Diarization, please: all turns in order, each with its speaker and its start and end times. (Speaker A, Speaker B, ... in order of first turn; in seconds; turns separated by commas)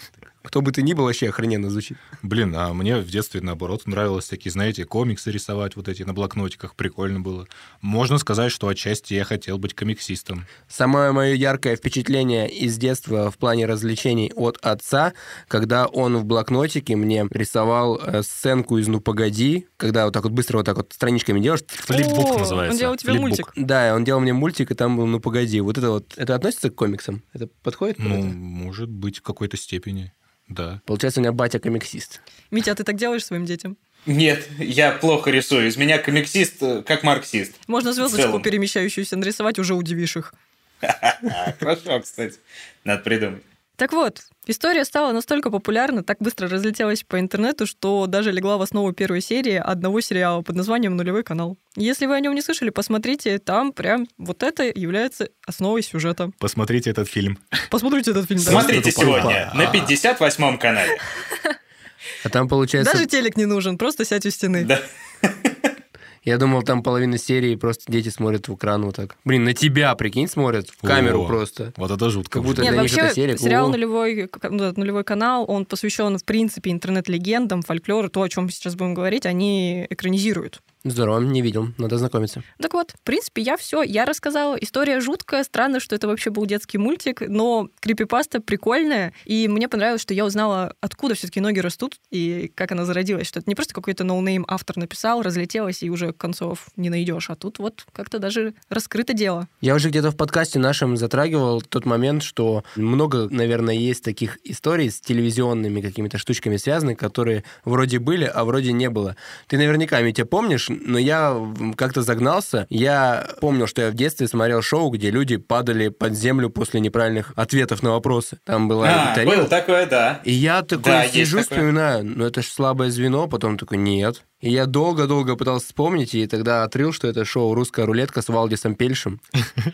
Speaker A: 0.4-2.0, Speaker B: 2.2-10.5, Speaker A: 10.7-21.8, Speaker B: 21.8-23.5, Speaker C: 21.9-23.5, Speaker A: 23.5-28.3, Speaker B: 28.0-30.8, Speaker A: 30.9-32.2, Speaker C: 32.5-33.7, Speaker D: 34.0-38.5, Speaker C: 37.7-40.3, Speaker D: 40.8-43.4, Speaker C: 43.8-56.3, Speaker B: 56.4-57.4, Speaker C: 57.7-58.7, Speaker B: 58.4-59.9, Speaker D: 58.5-61.0, Speaker A: 58.7-59.5, Speaker A: 62.2-63.1, Speaker C: 62.8-64.7, Speaker D: 64.6-65.5, Speaker A: 66.2-71.7, Speaker B: 70.8-73.0, Speaker A: 72.3-73.8, Speaker C: 72.6-80.6, Speaker A: 80.8-82.4, Speaker C: 82.6-99.5, Speaker A: 99.6-119.5, Speaker D: 118.8-120.2, Speaker A: 120.2-129.2, Speaker D: 120.8-121.7